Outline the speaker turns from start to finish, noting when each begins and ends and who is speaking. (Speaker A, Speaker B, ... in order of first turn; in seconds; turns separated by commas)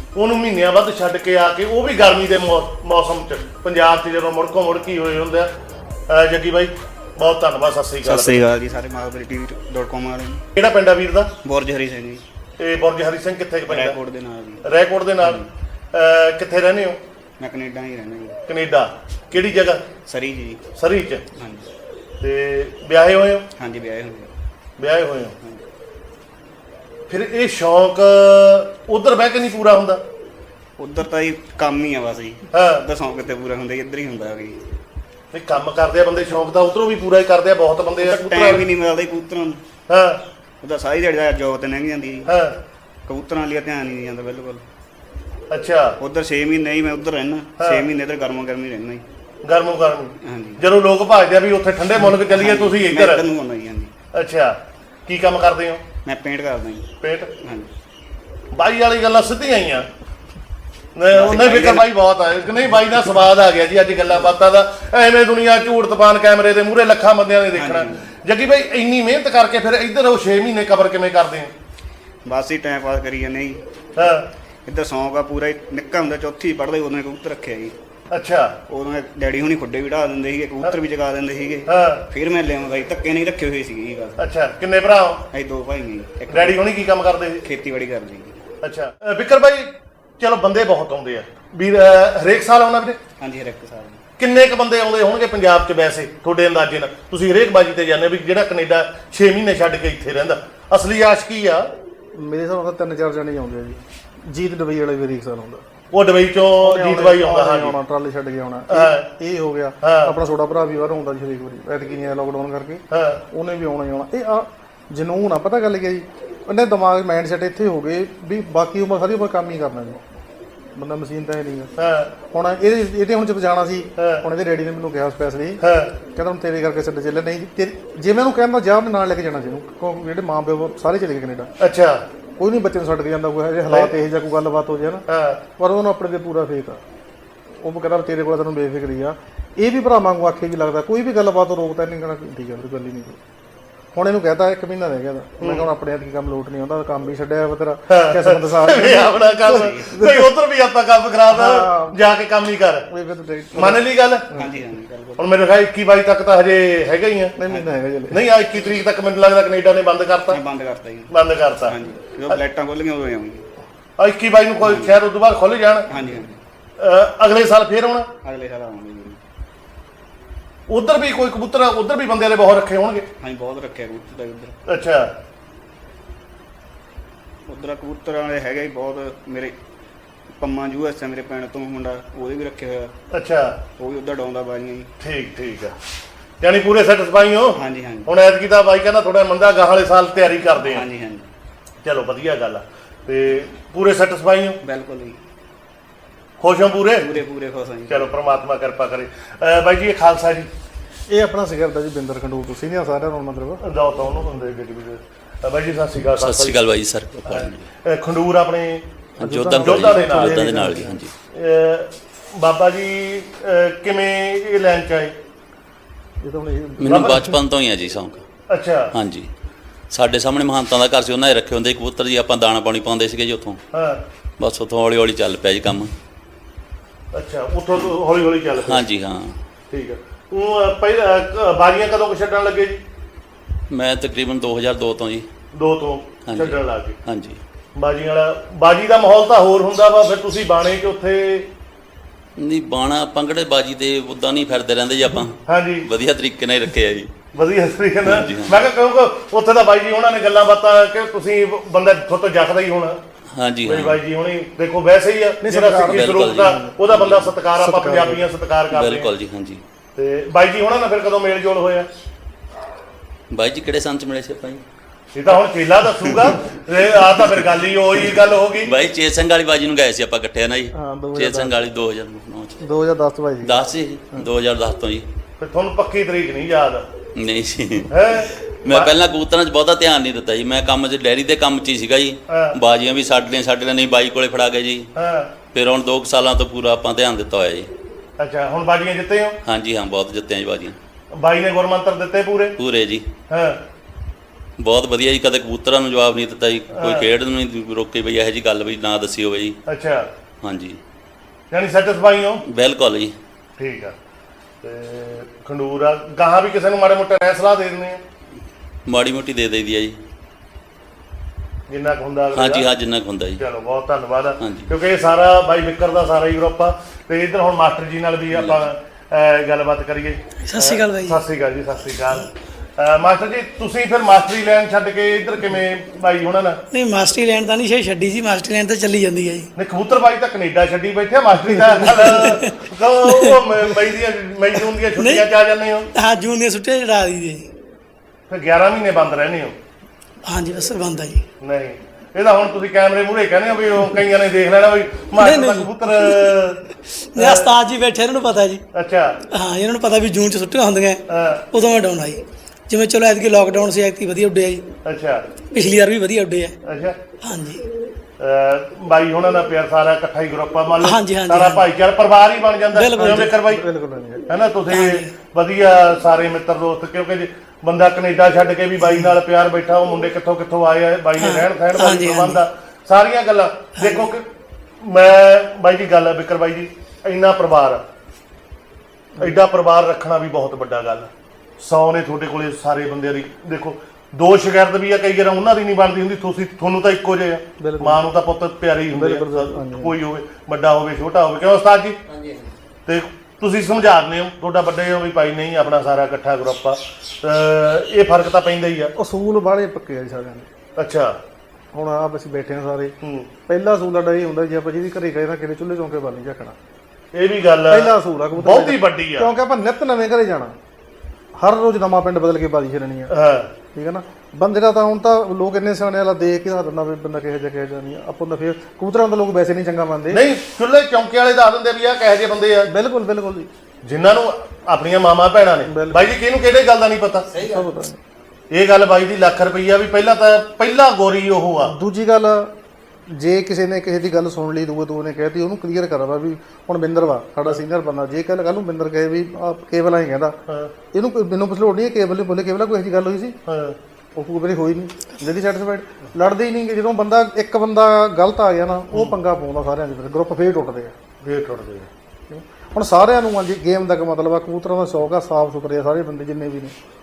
Speaker A: 0.1-5.5, Speaker A: 6.1-8.4, Speaker B: 8.0-10.4, Speaker A: 10.6-11.3, Speaker B: 11.4-12.2, Speaker A: 12.6-14.0, Speaker B: 13.7-14.6, Speaker A: 14.6-15.4, Speaker B: 15.2-15.5, Speaker A: 15.9-17.0, Speaker B: 17.4-18.4, Speaker A: 18.5-19.8, Speaker B: 20.1-20.6, Speaker A: 20.8-21.2, Speaker B: 21.4-21.7, Speaker A: 22.2-23.4, Speaker B: 23.6-24.3, Speaker A: 24.8-25.3, Speaker A: 27.1-30.0, Speaker B: 30.8-34.6, Speaker A: 32.5-32.8, Speaker A: 35.3-38.6, Speaker B: 38.0-39.6, Speaker A: 39.9-40.2, Speaker B: 40.6-42.3, Speaker A: 42.3-42.6, Speaker B: 43.1-44.6, Speaker A: 45.5-45.9, Speaker B: 46.0-49.0, Speaker A: 49.5-53.2, Speaker B: 50.2-50.6, Speaker B: 52.1-53.9, Speaker A: 54.1-55.8, Speaker B: 56.0-56.9, Speaker A: 57.0-57.3, Speaker B: 57.4-57.7, Speaker A: 58.5-59.9, Speaker A: 61.0-71.5, Speaker B: 61.1-61.9, Speaker B: 67.5-68.1, Speaker B: 72.2-73.6, Speaker A: 74.0-74.3, Speaker B: 74.7-77.7, Speaker A: 78.1-78.5, Speaker B: 78.7-84.3, Speaker A: 81.7-82.0, Speaker A: 84.2-85.2, Speaker B: 85.3-86.7, Speaker A: 86.3-87.4, Speaker B: 87.4-88.4, Speaker A: 88.6-93.0, Speaker B: 93.2-94.0, Speaker A: 94.2-101.7, Speaker C: 102.2-105.6, Speaker A: 105.9-107.8, Speaker C: 106.6-120.1, Speaker A: 108.7-109.1, Speaker A: 109.8-110.2, Speaker A: 112.9-113.2, Speaker C: 120.8-121.7, Speaker A: 121.8-122.1, Speaker C: 122.3-125.6, Speaker A: 124.0-124.2, Speaker A: 125.6-125.9, Speaker C: 126.1-131.5, Speaker A: 131.6-132.0, Speaker C: 132.4-135.0, Speaker A: 133.7-133.9, Speaker A: 135.1-135.4, Speaker C: 135.6-136.8, Speaker C: 137.6-143.2, Speaker C: 143.9-150.3, Speaker A: 145.4-145.7, Speaker A: 147.9-152.9, Speaker B: 149.5-149.9, Speaker C: 151.3-152.0, Speaker C: 152.9-154.6, Speaker A: 153.6-154.3, Speaker B: 154.3-155.2, Speaker A: 155.2-157.4, Speaker C: 157.4-158.2, Speaker A: 158.1-160.4, Speaker B: 160.3-161.1, Speaker A: 161.1-161.8, Speaker B: 161.7-163.4, Speaker A: 164.0-165.9, Speaker B: 164.6-165.0, Speaker B: 165.9-166.4, Speaker A: 166.8-168.1, Speaker B: 168.2-169.2, Speaker A: 170.7-173.1, Speaker B: 173.2-174.6, Speaker A: 174.7-175.1, Speaker B: 177.5-179.6, Speaker B: 180.4-182.9, Speaker A: 183.1-183.5, Speaker B: 183.8-184.9, Speaker A: 185.0-185.8, Speaker A: 186.4-190.8, Speaker B: 187.6-188.1, Speaker B: 190.6-191.3, Speaker A: 191.8-194.6, Speaker B: 194.6-195.2, Speaker A: 196.4-197.1, Speaker B: 197.0-198.2, Speaker A: 197.9-200.5, Speaker C: 201.1-203.6, Speaker A: 203.6-206.6, Speaker D: 206.2-207.7, Speaker A: 207.2-208.8, Speaker D: 209.2-211.1, Speaker C: 209.2-211.0, Speaker A: 209.6-210.5, Speaker A: 211.3-215.1, Speaker C: 216.2-217.3, Speaker D: 216.8-218.2, Speaker A: 216.9-217.2, Speaker A: 218.5-218.9, Speaker D: 218.9-219.3, Speaker D: 219.9-223.6, Speaker A: 223.7-224.0, Speaker D: 224.4-225.9, Speaker A: 227.1-228.8, Speaker D: 228.6-229.3, Speaker A: 229.7-232.8, Speaker D: 233.7-235.2, Speaker A: 235.5-237.0, Speaker D: 236.3-237.4, Speaker A: 237.8-241.5, Speaker D: 242.4-247.1, Speaker A: 245.5-245.9, Speaker A: 247.3-253.0, Speaker D: 248.0-248.6, Speaker D: 253.4-254.0, Speaker A: 253.7-259.1, Speaker C: 255.4-256.8, Speaker D: 255.8-257.3, Speaker C: 257.5-258.2, Speaker D: 258.7-259.6, Speaker A: 260.0-261.9, Speaker D: 263.3-264.6, Speaker A: 265.1-268.7, Speaker D: 268.6-272.6, Speaker C: 270.8-271.6, Speaker C: 272.6-273.6, Speaker D: 273.4-275.1, Speaker A: 275.4-276.9, Speaker D: 277.2-284.9, Speaker A: 277.9-278.9, Speaker A: 282.3-282.6, Speaker A: 285.0-285.3, Speaker D: 285.5-287.7, Speaker A: 288.2-289.4, Speaker D: 289.5-290.8, Speaker A: 291.1-292.6, Speaker D: 292.6-293.0, Speaker A: 293.3-293.6, Speaker D: 294.6-299.6, Speaker A: 296.7-297.1, Speaker A: 299.7-300.1, Speaker D: 300.4-300.8, Speaker A: 301.5-302.4, Speaker D: 302.5-303.1, Speaker A: 303.6-303.9, Speaker A: 304.6-308.0, Speaker D: 308.9-310.0, Speaker A: 311.7-312.7, Speaker D: 312.3-313.4, Speaker A: 313.4-326.6, Speaker D: 314.4-314.7, Speaker D: 318.3-318.6, Speaker E: 320.4-321.2, Speaker E: 326.7-329.5, Speaker A: 329.6-335.9, Speaker E: 331.8-333.8, Speaker E: 334.6-335.3, Speaker E: 335.9-337.5, Speaker A: 338.3-339.5, Speaker E: 340.2-341.2, Speaker A: 341.4-346.6, Speaker E: 345.2-346.4, Speaker E: 347.1-348.6, Speaker A: 347.2-347.5, Speaker A: 348.7-349.1, Speaker E: 349.3-354.7, Speaker A: 351.1-351.4, Speaker A: 354.9-355.2, Speaker E: 355.5-356.6, Speaker A: 356.6-357.0, Speaker E: 357.2-357.6, Speaker A: 358.2-363.6, Speaker E: 360.8-361.7, Speaker E: 362.7-363.3, Speaker C: 363.0-364.2, Speaker A: 364.3-374.3, Speaker E: 364.7-365.1, Speaker E: 368.8-369.1, Speaker E: 371.2-372.4, Speaker E: 373.8-374.1, Speaker A: 374.8-377.8, Speaker A: 379.2-392.0, Speaker C: 387.6-388.1, Speaker C: 388.9-390.0, Speaker A: 392.9-398.9, Speaker C: 399.0-400.5, Speaker A: 400.8-401.1, Speaker C: 401.7-402.9, Speaker A: 403.0-403.3, Speaker C: 403.5-406.6, Speaker A: 407.1-409.3, Speaker C: 407.7-410.6, Speaker C: 411.4-413.1, Speaker A: 413.1-413.5, Speaker C: 413.7-420.2, Speaker A: 420.1-422.7, Speaker C: 422.7-423.5, Speaker A: 423.8-427.3, Speaker C: 425.7-426.1, Speaker C: 427.4-428.0, Speaker A: 428.5-431.7, Speaker C: 431.7-432.5, Speaker C: 433.1-440.4, Speaker A: 440.5-440.7, Speaker C: 440.9-443.4, Speaker A: 443.5-443.8, Speaker C: 444.2-450.9, Speaker A: 451.2-451.9, Speaker C: 452.3-456.7